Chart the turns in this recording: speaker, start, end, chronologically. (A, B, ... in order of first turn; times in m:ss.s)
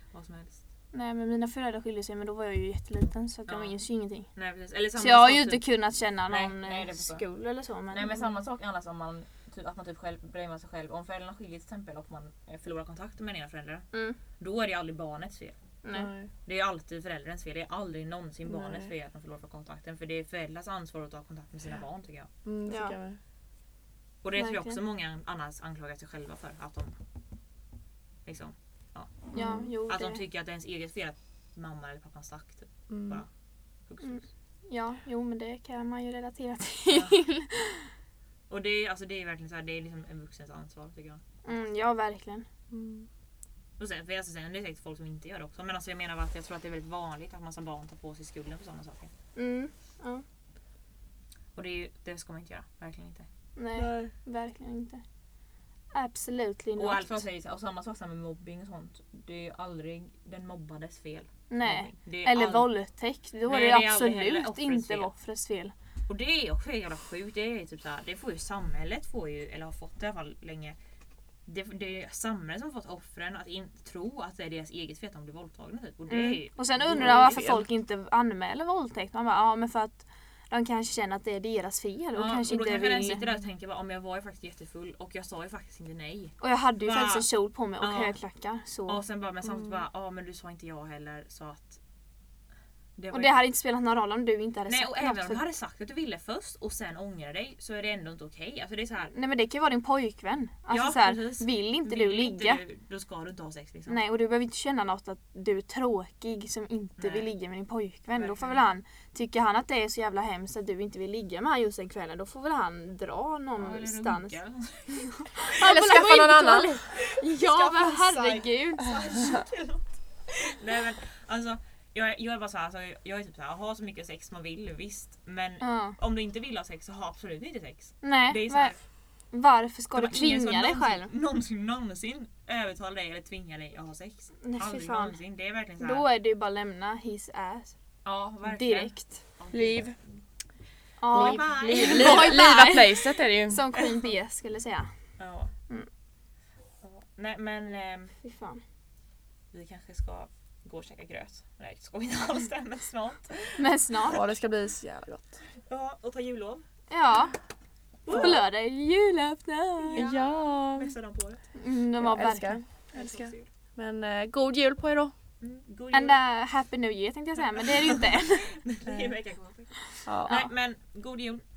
0:00.1-0:00.6 A
0:00.9-0:04.3 B
0:03.5-0:03.8 A
0:04.3-0:05.7 A
0:05.0-0:08.2 B
0:06.3-0:07.2 A
0:07.9-0:15.5 A
0:13.9-0:14.2 B
0:15.8-0:16.1 B
0:15.9-0:16.3 C
0:16.4-0:22.3 A
0:22.4-0:23.2 C
0:22.7-0:23.0 B
0:24.2-0:27.0 A
0:24.3-0:24.8 B
0:28.2-0:29.3 A
0:29.3-0:29.7 C
0:29.3-0:30.2 B
0:29.8-0:33.3 A
0:32.9-0:33.2 C
0:33.8-0:34.3 A
0:34.0-0:37.9 B
0:36.9-0:37.2 A
0:38.5-0:41.2 A
0:41.4-0:42.4 B
0:42.7-0:43.1 C
0:43.8-0:49.1 A
0:49.3-0:50.2 B
0:51.5-0:53.3 A
0:53.6-0:55.0 B
0:53.8-0:54.1 C
0:55.9-0:57.2 B
0:56.8-1:02.7 A
1:01.5-1:05.7 B
1:03.4-1:05.1 A
1:06.1-1:10.8 A
1:11.4-1:17.5 A
1:16.1-1:23.2 B
1:17.0-1:17.7 C
1:22.1-1:28.2 A
1:26.4-1:29.0 B
1:28.9-1:31.8 A
1:33.0-1:33.4 A
1:33.1-1:35.4 B
1:34.7-1:39.1 A
1:39.1-1:42.6 B
1:40.7-1:44.0 A
1:43.9-1:54.4 B
1:47.0-1:47.3 A
1:48.1-1:48.7 A
1:53.6-1:56.1 A
1:54.9-1:59.1 B
1:55.6-1:56.8 C
1:56.9-2:08.8 A
2:05.6-2:06.0 B
2:08.0-2:08.8 B
2:09.3-2:11.1 B
2:09.9-2:16.0 A
2:14.4-2:15.2 B
2:15.8-2:17.8 B
2:18.0-2:20.0 A
2:18.4-2:19.2 B
2:19.5-2:20.0 C
2:21.0-2:24.9 B
2:21.1-2:22.5 A
2:21.1-2:23.6 C
2:25.2-2:25.5 A
2:26.8-2:28.1 A
2:28.2-2:28.6 B
2:29.5-2:34.2 A
2:33.6-2:34.2 B
2:34.1-2:35.4 C
2:35.6-2:36.6 A
2:36.9-2:37.4 B
2:38.0-2:38.4 A
2:38.1-2:38.4 C
2:38.1-2:40.1 B
2:39.8-2:41.4 A
2:40.0-2:40.9 C
2:41.5-2:42.6 B
2:42.0-2:45.1 C
2:42.9-2:43.5 A
2:45.4-2:46.2 A
2:45.9-2:48.6 B
2:48.6-2:51.4 A
2:50.0-2:50.5 C